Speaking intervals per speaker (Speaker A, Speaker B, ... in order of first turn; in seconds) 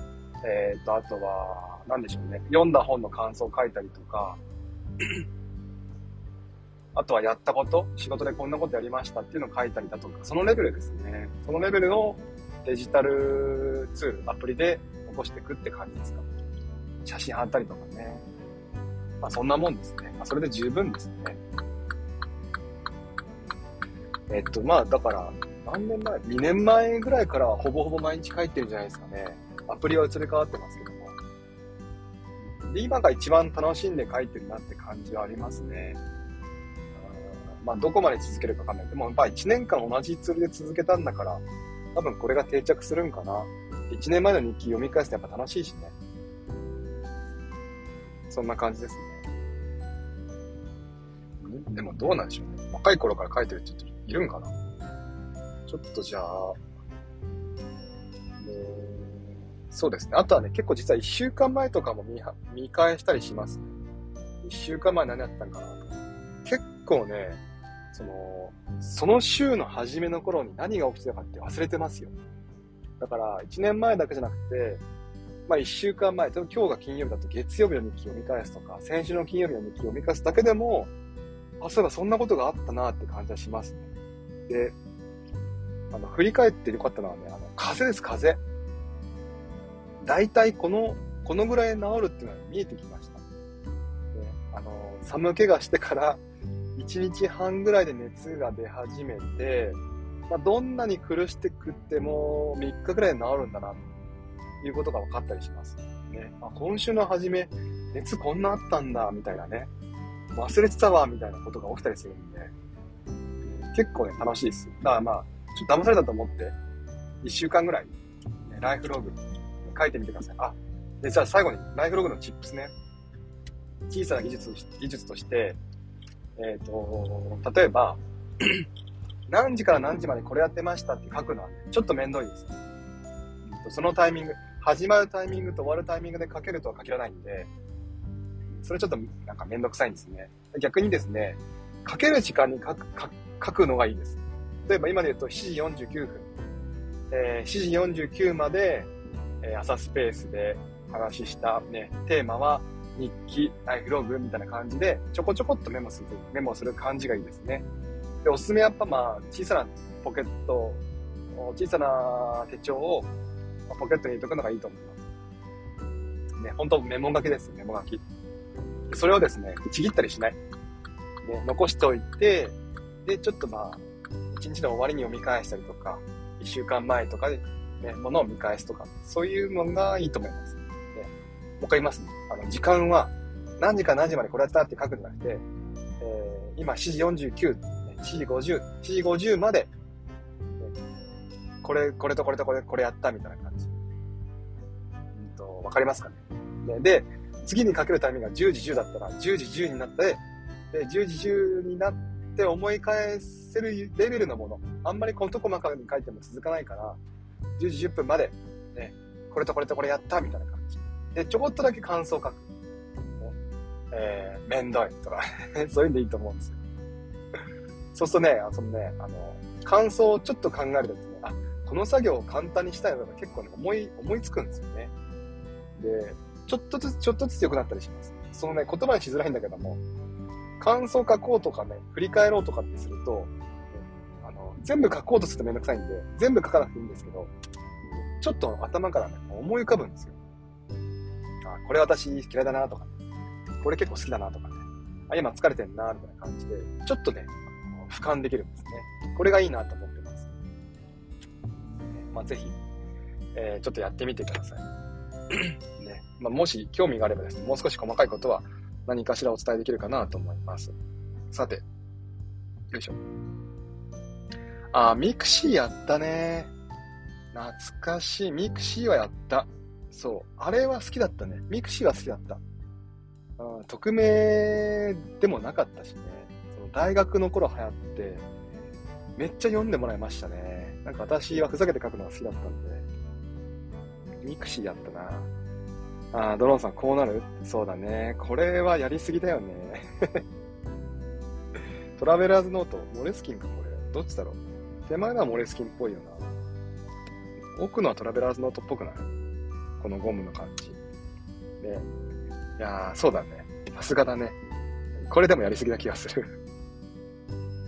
Speaker A: 0.4-4.4, 6.9-16.2, 17.0-18.2, 19.2-21.4, 24.3-31.2, 32.6-36.0, 37.0-41.4, 41.9-45.9, 48.3-49.2, 51.4-54.5, 55.7-56.6, 58.4-63.7, 64.4-65.9, 66.4-67.4, 67.9-72.1, 73.0-74.8, 75.5-80.9, 81.6-83.9, 84.5-84.7, 85.9-88.4, 90.0-93.2, 94.1-96.2, 96.8-103.8, 104.6-109.7, 110.3-112.5, 113.4-116.5, 117.2-117.9, 118.5-122.7, 123.9-125.6, 126.4-128.7, 129.3-132.5, 133.4-137.5, 138.6-146.3, 147.1-148.9, 149.4-157.6, 158.2-160.8, 161.3-163.1, 163.7-165.1, 166.4-168.0, 168.9-170.4, 171.2-185.4, 186.0-189.7, 191.6-193.7, 195.1-207.0, 207.6-212.5, 213.9-216.6, 217.9-224.9, 225.8-229.8, 230.6-237.3, 238.2-240.2, 241.4-242.9, 243.6-250.4, 251.9-252.6, 253.3-254.7, 255.3-260.7, 261.3-261.6, 262.7-263.0, 264.7-266.5, 267.3-272.4, 273.4-278.2, 279.2-282.9, 284.2-285.3, 286.1-290.2, 292.0-296.2, 297.5-299.1, 299.8-300.8, 301.6-301.9, 302.6-304.4, 305.1-306.3